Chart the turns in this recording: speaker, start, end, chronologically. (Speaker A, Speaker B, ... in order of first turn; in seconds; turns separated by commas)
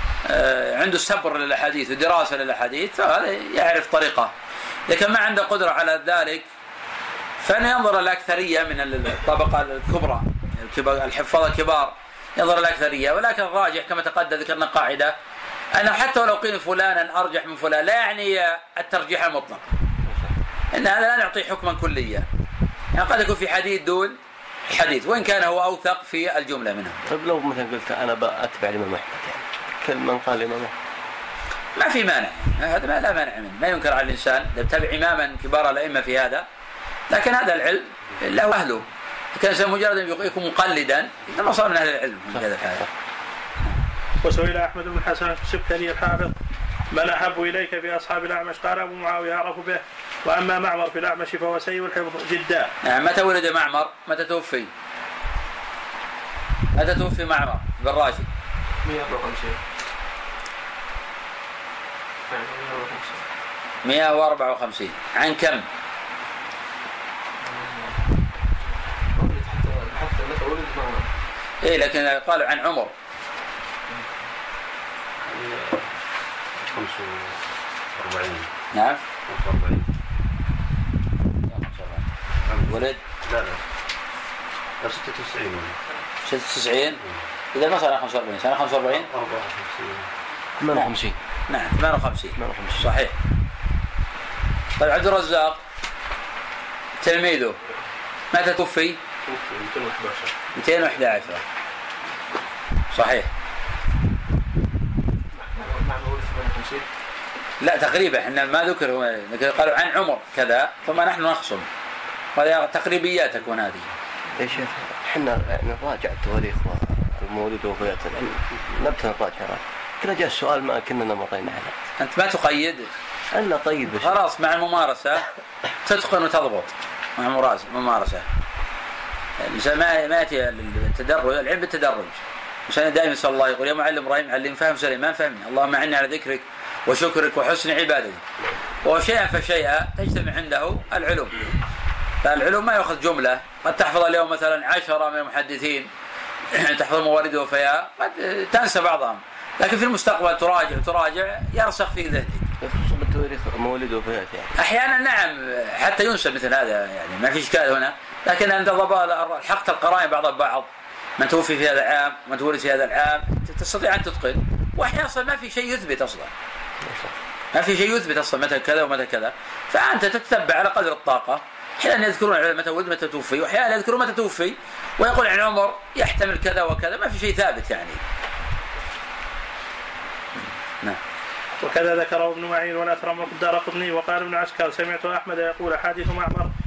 Speaker A: 0.3-4.3, Speaker A: 4.9-6.5, Speaker A: 7.4-15.2, Speaker A: 15.8-19.7, Speaker B: 20.1-20.3, Speaker A: 20.7-22.3, Speaker A: 22.9-27.0, Speaker B: 27.1-30.7, Speaker A: 31.8-36.5, Speaker A: 37.1-42.9, Speaker C: 44.2-46.4, Speaker C: 46.9-52.7, Speaker A: 52.8-54.7, Speaker A: 56.8-58.3, Speaker D: 58.9-59.6, Speaker D: 62.3-63.2, Speaker A: 63.8-65.7, Speaker D: 67.4-68.0, Speaker D: 69.2-71.1, Speaker A: 71.6-72.9, Speaker D: 73.9-74.3, Speaker E: 75.3-75.9, Speaker E: 76.6-77.4, Speaker E: 78.0-78.5, Speaker A: 78.7-79.0, Speaker E: 79.3-79.9, Speaker A: 81.5-82.1, Speaker E: 82.4-83.6, Speaker A: 82.7-83.0, Speaker E: 84.8-85.8, Speaker A: 86.2-87.0, Speaker A: 87.5-89.1, Speaker E: 88.9-90.1, Speaker B: 90.6-91.2, Speaker A: 91.5-93.1, Speaker B: 92.4-92.9, Speaker A: 94.8-95.6, Speaker A: 97.0-97.6, Speaker A: 98.3-99.0, Speaker D: 99.2-100.3, Speaker A: 100.5-101.4, Speaker A: 102.9-103.3, Speaker D: 105.3-106.9, Speaker A: 107.6-111.7, Speaker A: 112.3-113.9, Speaker B: 114.4-121.8, Speaker A: 122.0-122.9, Speaker B: 123.3-124.2, Speaker A: 124.0-125.3, Speaker A: 125.8-128.3, Speaker A: 129.4-138.2, Speaker A: 138.8-141.4, Speaker A: 142.2-145.9, Speaker A: 146.5-152.5, Speaker B: 152.6-154.5, Speaker A: 154.6-166.3, Speaker B: 166.8-167.1, Speaker A: 167.5-178.0, Speaker C: 181.6-186.5